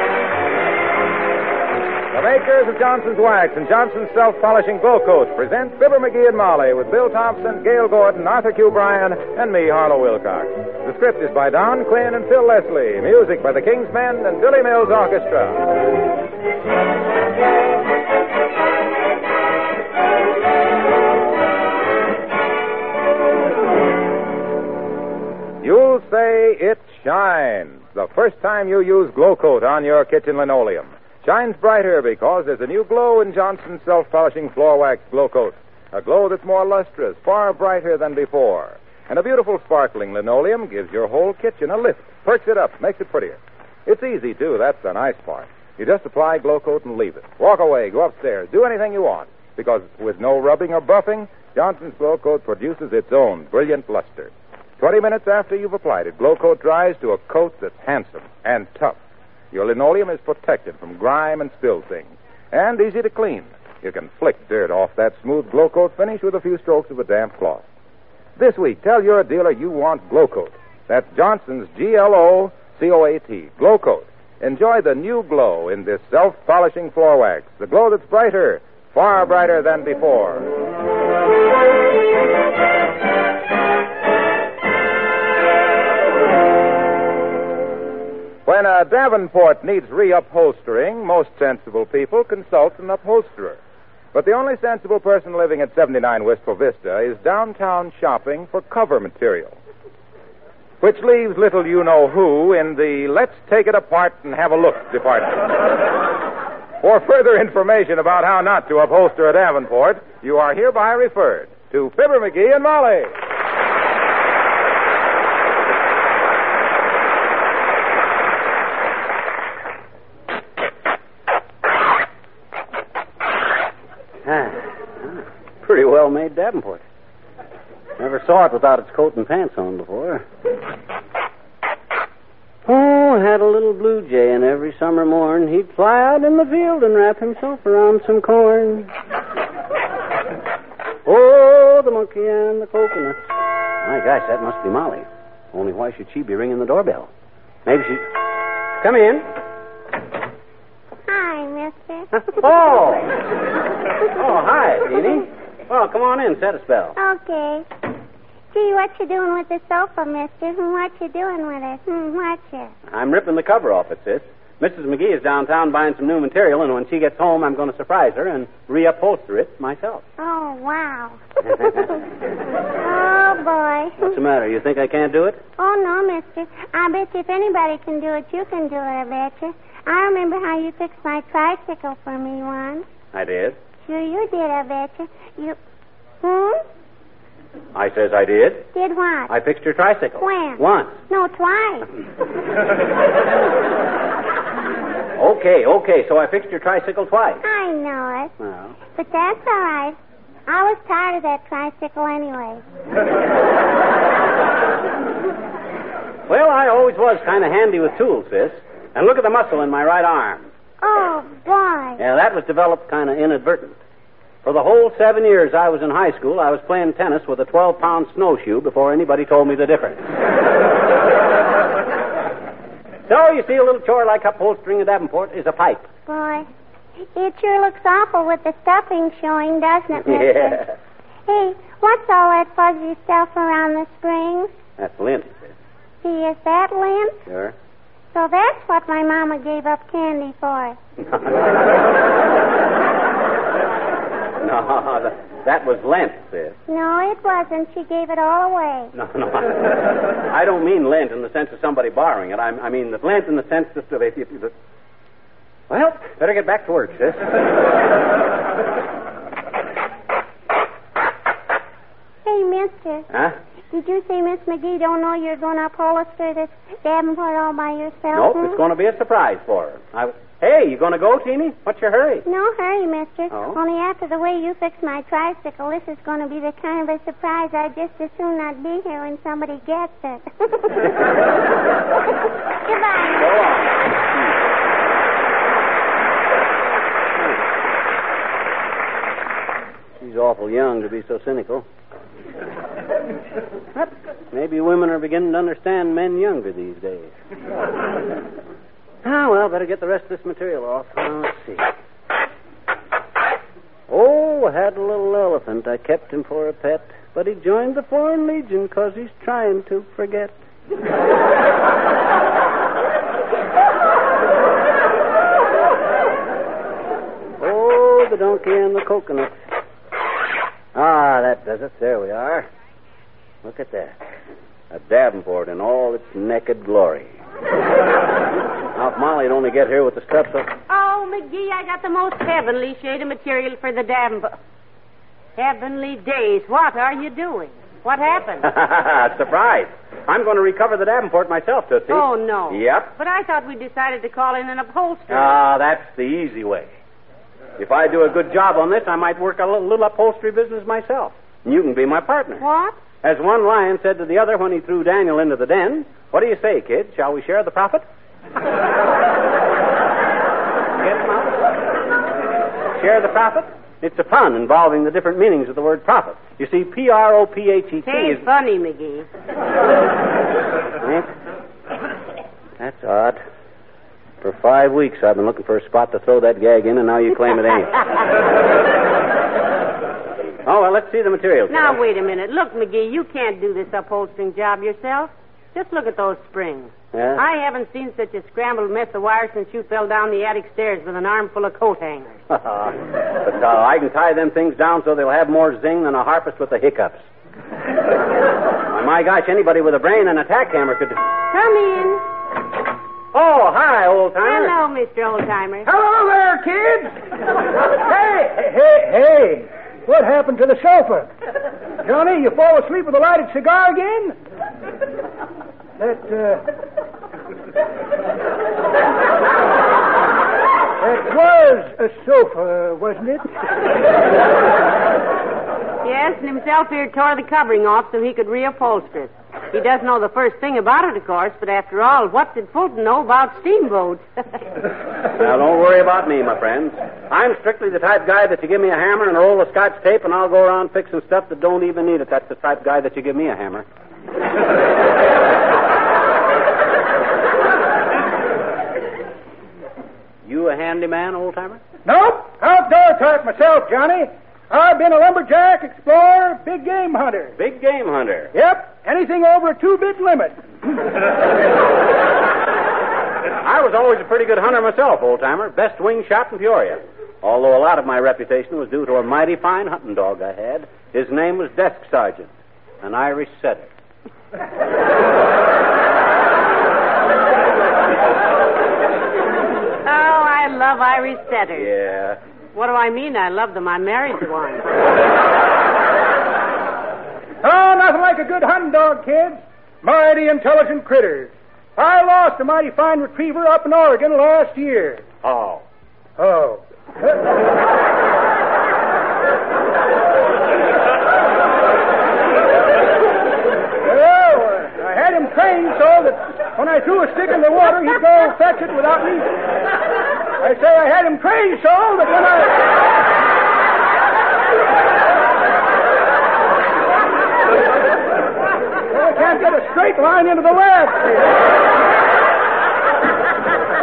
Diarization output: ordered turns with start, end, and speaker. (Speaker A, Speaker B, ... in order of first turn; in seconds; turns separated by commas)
Speaker A: 2.1-15.7, Speaker A: 25.6-59.0, Speaker A: 59.5-67.6, Speaker A: 68.4-80.5, Speaker A: 88.5-93.6, Speaker A: 94.1-99.6, Speaker A: 100.8-105.4, Speaker A: 106.8-113.1, Speaker B: 124.2-126.8, Speaker B: 128.0-130.2, Speaker B: 132.7-138.9, Speaker B: 141.0-143.2, Speaker B: 143.8-147.1, Speaker B: 147.7-148.2, Speaker B: 148.8-149.3, Speaker C: 151.1-152.2, Speaker B: 152.2-153.2, Speaker B: 154.1-156.9, Speaker C: 157.0-157.7, Speaker C: 158.5-162.7, Speaker B: 162.9-170.0, Speaker C: 170.2-171.6, Speaker B: 171.6-171.8, Speaker C: 172.8-174.2, Speaker B: 174.0-175.4, Speaker C: 175.6-182.8, Speaker B: 183.1-183.6, Speaker C: 183.8-185.6, Speaker C: 186.2-186.6, Speaker B: 187.7-188.7, Speaker C: 188.7-189.3, Speaker B: 189.3-191.0, Speaker C: 190.2-191.9, Speaker B: 195.2-197.4, Speaker C: 197.4-198.3, Speaker B: 198.4-198.8, Speaker C: 198.9-202.6, Speaker B: 206.3-210.5, Speaker C: 210.8-212.0, Speaker B: 212.0-213.8, Speaker B: 214.4-220.0, Speaker B: 223.1-225.9, Speaker C: 226.1-226.5, Speaker C: 227.1-230.6, Speaker B: 230.0-230.7, Speaker C: 231.2-234.5, Speaker B: 234.8-235.5, Speaker C: 236.0-237.2, Speaker B: 237.3-237.5, Speaker C: 238.1-240.8, Speaker B: 241.1-241.5, Speaker B: 244.4-246.6, Speaker C: 246.7-248.9, Speaker B: 248.9-254.5, Speaker B: 255.7-257.3, Speaker C: 262.2-263.1, Speaker B: 263.1-263.4, Speaker C: 263.7-268.6, Speaker B: 268.1-272.2, Speaker C: 272.2-280.9, Speaker B: 273.3-273.6, Speaker C: 282.6-283.3, Speaker B: 283.1-284.3, Speaker B: 290.0-291.6, Speaker B: 293.7-297.1, Speaker B: 299.0-301.7, Speaker B: 303.9-310.4, Speaker B: 317.4-319.3, Speaker B: 320.7-322.5, Speaker B: 323.4-324.0, Speaker B: 324.7-327.1, Speaker B: 328.7-330.5, Speaker D: 330.7-334.3, Speaker D: 335.4-338.5, Speaker B: 338.4-342.9, Speaker D: 341.9-345.4, Speaker B: 345.1-346.7, Speaker B: 347.6-352.4, Speaker D: 352.4-352.8, Speaker B: 353.0-357.8, Speaker B: 360.8-361.5, Speaker B: 362.7-368.2, Speaker D: 367.8-369.1, Speaker B: 370.8-371.1, Speaker B: 372.6-373.2, Speaker B: 374.2-377.8, Speaker B: 380.4-381.6, Speaker D: 381.5-392.2, Speaker B: 386.9-387.2, Speaker B: 392.3-397.0, Speaker B: 398.7-401.0, Speaker D: 401.3-402.0, Speaker B: 403.1-404.5, Speaker D: 404.2-405.7, Speaker E: 405.6-407.0, Speaker E: 407.7-411.1, Speaker E: 411.8-414.1, Speaker E: 415.8-416.4, Speaker E: 420.8-423.3, Speaker D: 425.8-434.4, Speaker B: 435.1-443.6, Speaker B: 450.2-451.6, Speaker E: 451.8-457.4, Speaker B: 457.4-458.3, Speaker E: 458.3-460.4, Speaker B: 463.4-472.3, Speaker B: 472.8-473.7, Speaker D: 479.8-481.7, Speaker B: 481.6-482.2, Speaker D: 482.5-484.6, Speaker E: 487.4-495.1, Speaker B: 495.2-495.6, Speaker E: 496.2-497.2, Speaker E: 503.8-509.3, Speaker E: 510.4-512.7, Speaker E: 518.9-521.4